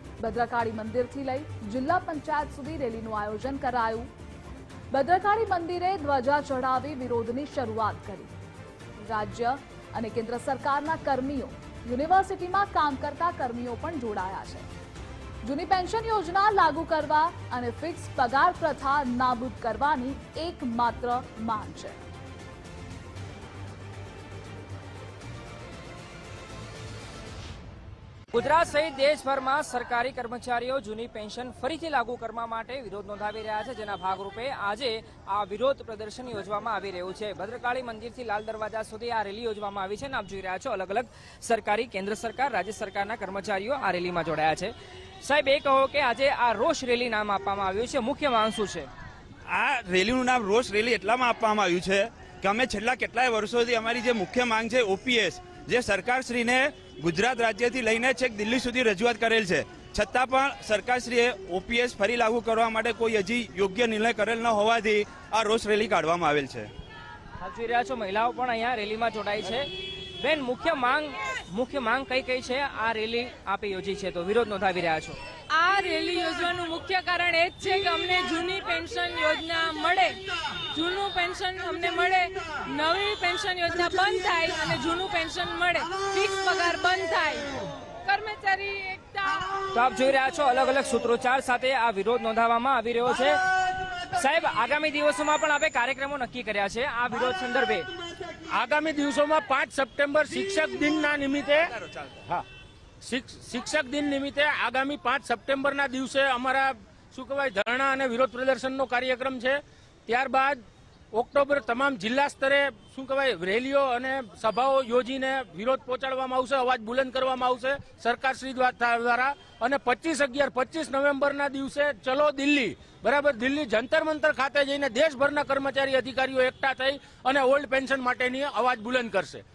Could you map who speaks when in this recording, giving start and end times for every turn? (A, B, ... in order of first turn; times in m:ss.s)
0:00.2-0:04.1 A
0:04.9-0:08.3 A
0:09.0-0:14.7 A
0:15.4-0:22.0 A
0:28.3-0:44.7 B
0:45.2-0:48.9 B
0:49.5-1:06.7 C
1:07.4-1:09.7 B
1:10.2-1:15.2 B
1:15.5-1:29.6 D
1:29.7-1:33.4 B
1:34.1-1:37.9 B
1:38.5-1:41.7 E
1:41.8-1:42.2 C
1:43.0-2:09.4 E